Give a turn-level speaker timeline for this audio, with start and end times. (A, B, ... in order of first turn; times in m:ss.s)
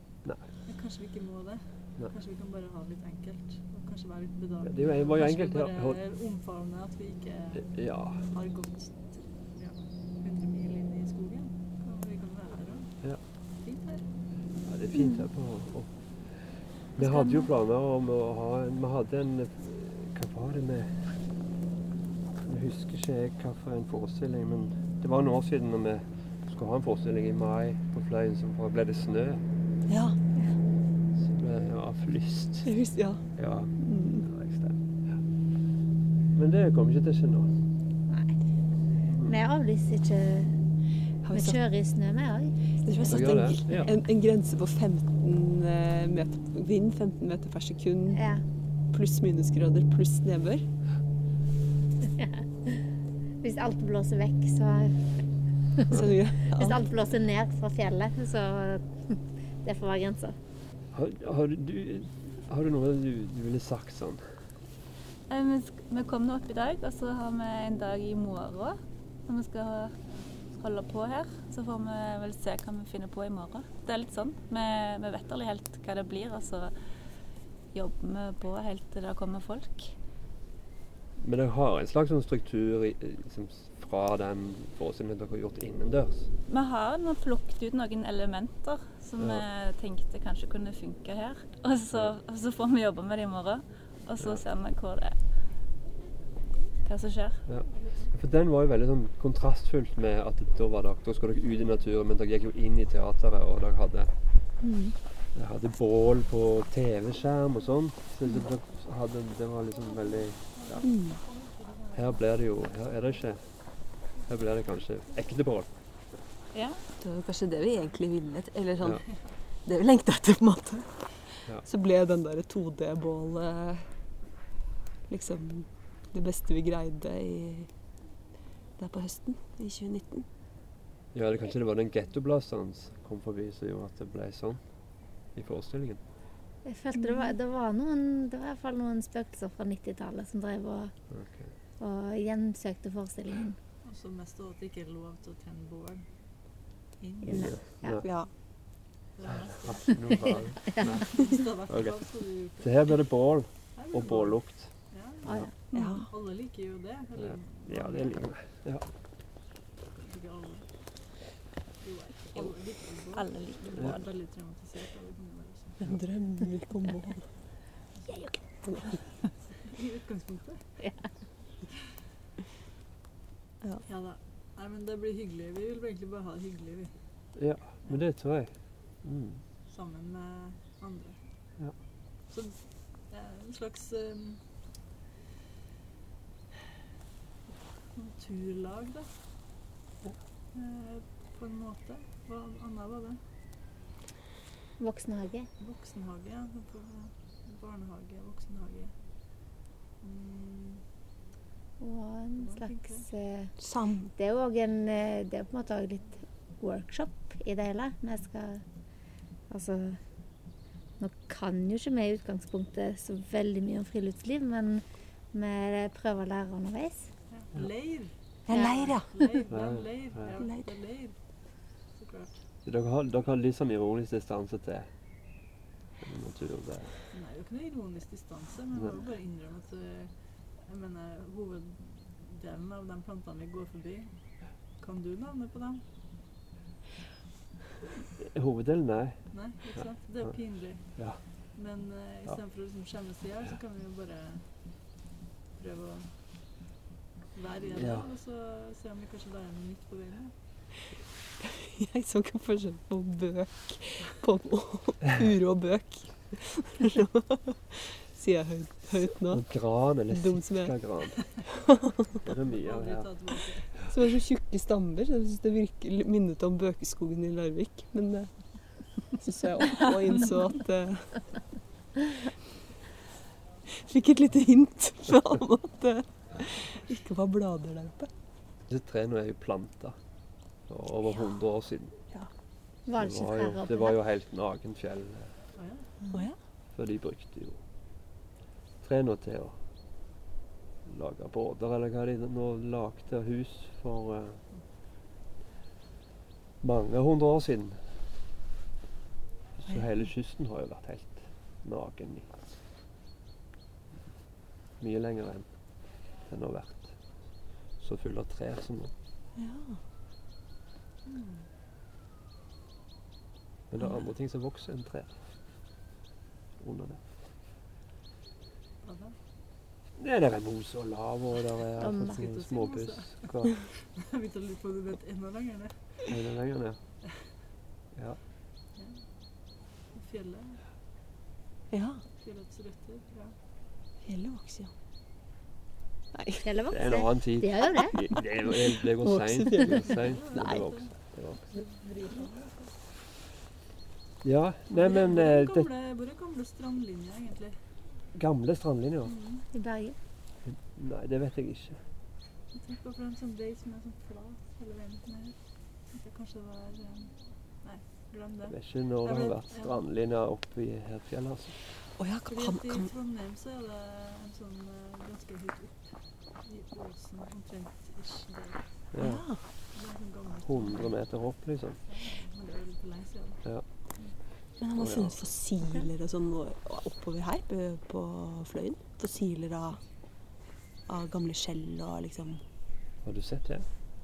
0:00.6-0:07.7 A
0:04.6-0:06.0 B
0:07.6-0:08.2 B
0:08.2-0:12.9 A
0:13.6-0:14.0 A
0:14.6-0:15.9 B
0:17.0-0:21.0 B
0:17.0-0:17.5 C
0:22.4-0:29.4 B
0:29.9-0:30.2 D
0:31.2-0:32.7 B
0:32.6-0:33.2 D
0:33.4-0:34.8 B
0:33.8-0:34.2 D
0:36.3-0:37.5 B
0:38.1-0:38.3 E
0:39.0-0:39.4 B
0:39.2-0:40.6 E
0:41.2-0:41.6 D
0:41.3-0:43.4 E
0:42.8-0:48.2 D
0:43.1-0:43.9 B
0:48.1-0:48.4 E
0:48.9-0:50.6 D
0:52.2-0:52.8 E
0:53.4-0:55.2 E
0:55.9-0:56.8 D
0:56.5-1:00.4 E
1:00.9-1:04.2 B
1:05.3-1:09.9 C
1:10.5-1:16.7 C
1:17.7-1:19.9 C
1:21.2-1:26.3 B
1:26.5-1:35.2 C
1:29.2-1:29.5 B
1:36.9-1:37.4 C
1:37.5-1:44.1 B
1:44.6-1:44.9 D
1:45.4-1:50.9 B
1:50.5-1:52.3 A
1:50.8-1:51.2 D
1:51.9-1:53.4 B
1:54.2-1:55.7 B
1:56.5-1:56.8 C
1:57.0-1:59.0 D
1:59.6-2:03.9 D
2:05.1-2:07.7 D
2:08.8-2:10.3 D
2:11.1-2:14.6 B
2:15.4-2:16.0 B
2:16.6-2:20.9 E
2:17.0-2:17.3 D
2:21.1-2:21.5 B
2:21.8-2:23.6 E
2:23.8-2:26.0 A
2:27.0-2:27.6 A
2:27.2-2:28.0 E
2:27.3-2:28.0 B
2:28.0-2:28.3 D
2:29.1-2:33.0 A
2:29.3-2:32.0 B
2:32.6-2:34.7 B
2:33.8-2:38.1 A
2:35.2-2:35.5 E
2:35.7-2:36.1 D
2:37.2-2:38.8 B
2:40.0-2:40.7 A
2:41.8-2:45.8 A
2:43.1-2:44.0 C
2:45.8-2:47.3 D
2:48.6-2:49.0 D
2:49.6-2:50.6 A
2:53.8-2:56.9 A
2:57.4-2:58.5 B
2:59.0-2:59.4 B
2:59.7-3:01.2 A
3:02.3-3:02.6 A
3:03.1-3:04.4 A
3:07.9-3:09.1 A
3:10.5-3:13.2 A
3:14.8-3:15.5 E
3:15.6-3:18.9 A
3:20.0-3:20.8 A
3:21.8-3:23.5 E
3:22.4-3:23.0 A
3:23.6-3:24.1 D
3:24.1-3:28.6 E
3:29.5-3:30.0 E
3:31.0-3:37.1 E
3:37.3-3:41.2 A
3:38.5-3:39.1 D
3:39.5-3:40.3 B
3:40.4-3:40.7 D
3:41.9-3:42.4 A
3:42.6-3:44.9 B
3:46.0-3:46.9 B
3:47.1-3:50.1 A
3:50.6-3:54.1 A
3:54.8-3:55.8 A
3:58.2-3:59.2 B
3:59.3-4:01.0 A
4:00.9-4:01.2 B
4:01.5-4:04.4 A
4:05.6-4:06.1 A
4:07.4-4:10.3 A
4:07.7-4:08.1 B
4:11.4-4:20.8 D
4:19.3-4:21.3 B
4:21.3-4:21.9 D
4:22.2-4:23.1 B
4:22.5-4:23.8 A
4:23.9-4:28.3 D
4:29.0-4:31.2 D
4:33.7-4:38.1 D
4:38.7-4:40.0 B
4:40.7-4:41.9 B
4:42.9-4:44.0 E
4:42.9-4:45.3 B
4:45.5-4:45.9 A
4:46.8-4:47.6 B
4:48.8-4:49.6 B
4:50.8-4:54.4 B
4:56.6-4:57.8 B
4:59.6-5:02.3 B
5:04.8-5:05.5 B
5:06.3-5:06.9 B
5:07.8-5:08.9 B
5:09.4-5:09.8 D
5:11.0-5:11.5 A
5:13.7-5:15.1 B
5:16.6-5:17.0 B
5:18.8-5:19.1 A
5:20.0-5:23.5 B
5:21.8-5:22.2 E
5:22.2-5:25.8 A
5:26.1-5:26.8 B
5:28.8-5:29.0 A
5:29.9-5:30.6 A
5:31.7-5:32.0 D
5:32.2-5:33.4 A
5:34.0-5:34.7 D
5:36.1-5:36.5 D
5:36.4-5:38.0 E
5:36.7-5:41.6 B
5:38.4-5:40.6 D
5:39.8-5:40.9 A
5:41.5-5:42.7 A
5:44.2-5:45.7 B
5:44.7-5:47.6 A
5:48.1-5:49.1 B
5:49.0-5:49.5 A
5:49.5-5:50.0 E
5:50.5-5:51.8 B
5:52.5-5:55.4 A
5:55.9-5:59.8 A
5:58.5-6:01.6 B
6:02.0-6:02.9 D
6:02.3-6:05.8 A
6:06.4-6:08.6 A
6:08.9-6:09.3 B
6:09.0-6:09.4 D
6:09.7-6:10.9 A
6:10.4-6:11.8 B
6:11.9-6:13.4 A
6:14.6-6:19.8 D
6:14.8-6:15.2 B
6:20.9-6:22.4 D
6:23.0-6:23.6 B